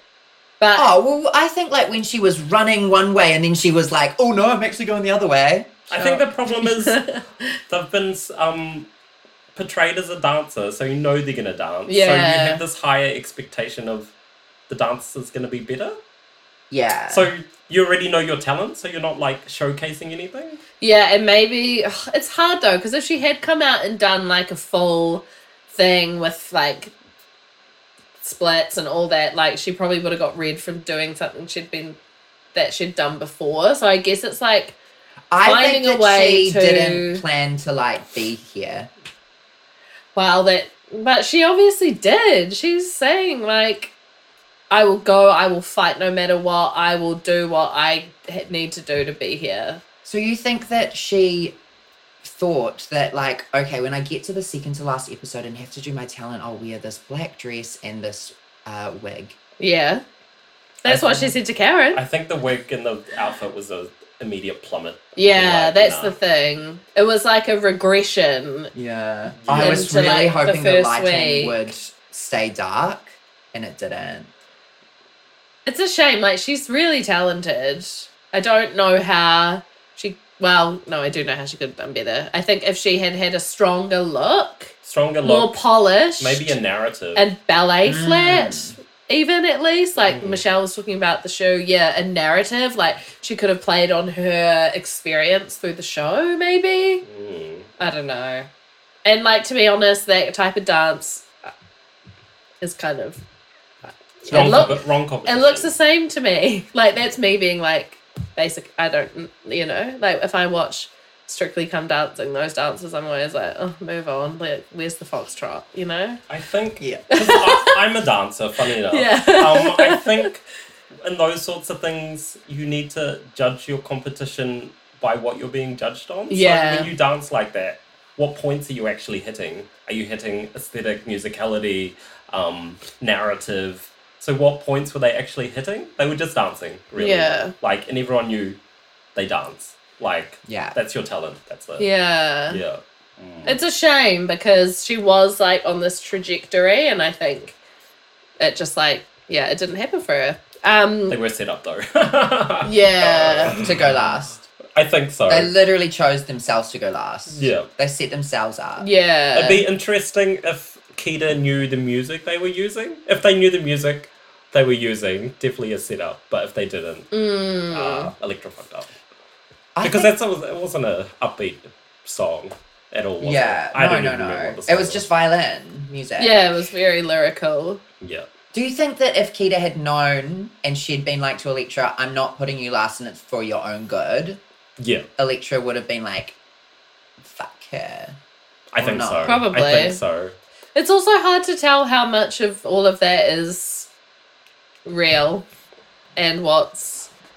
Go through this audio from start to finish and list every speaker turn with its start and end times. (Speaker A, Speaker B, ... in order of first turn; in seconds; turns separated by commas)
Speaker A: 0.6-0.9, Speaker B: 0.8-6.2, Speaker C: 5.9-7.1, Speaker A: 6.0-7.2, Speaker C: 7.7-8.9, Speaker C: 9.6-14.1, Speaker A: 11.9-12.6, Speaker C: 14.7-16.0, Speaker B: 16.7-17.3, Speaker C: 17.1-20.6, Speaker A: 20.8-26.9, Speaker A: 28.2-32.0, Speaker A: 32.5-34.8, Speaker B: 35.3-38.9, Speaker A: 35.4-37.2, Speaker A: 40.1-43.9, Speaker A: 44.7-49.8, Speaker B: 50.0-51.6, Speaker B: 52.2-59.4, Speaker A: 59.6-60.0, Speaker A: 60.8-62.0, Speaker C: 60.9-61.4, Speaker C: 61.9-66.2, Speaker A: 65.2-68.7, Speaker B: 68.8-74.3, Speaker C: 69.4-70.0, Speaker A: 69.5-71.7, Speaker A: 75.7-84.7, Speaker C: 84.8-85.6, Speaker A: 85.2-86.6, Speaker C: 86.2-87.2, Speaker A: 87.2-97.0, Speaker B: 87.8-88.8, Speaker C: 90.1-90.4, Speaker C: 97.0-97.7, Speaker A: 97.8-98.5, Speaker A: 99.0-101.3, Speaker A: 102.6-103.2, Speaker C: 104.2-105.7, Speaker A: 104.2-116.2, Speaker C: 116.3-120.4, Speaker A: 117.1-117.8, Speaker A: 118.9-120.3, Speaker C: 121.0-138.6, Speaker A: 126.3-126.9, Speaker A: 137.0-137.5, Speaker C: 139.2-141.9, Speaker B: 140.5-140.8, Speaker A: 141.8-142.6, Speaker C: 142.5-143.6, Speaker A: 143.5-147.6, Speaker A: 148.4-151.2, Speaker C: 151.1-154.2, Speaker A: 152.6-153.6, Speaker B: 153.5-154.4, Speaker C: 154.8-155.5, Speaker B: 155.3-158.9, Speaker C: 157.3-157.7, Speaker A: 158.8-159.7, Speaker C: 159.3-167.1, Speaker A: 167.1-168.1, Speaker C: 167.7-168.9, Speaker B: 169.8-170.1, Speaker C: 169.8-175.0, Speaker B: 173.2-176.4, Speaker A: 176.2-177.8, Speaker C: 178.0-178.3, Speaker B: 178.5-184.4, Speaker C: 184.8-185.1, Speaker B: 185.2-186.4, Speaker B: 187.2-188.2, Speaker C: 188.7-190.3, Speaker B: 188.8-189.4, Speaker A: 189.2-190.0, Speaker A: 190.8-193.9, Speaker A: 194.9-195.4, Speaker A: 196.2-197.1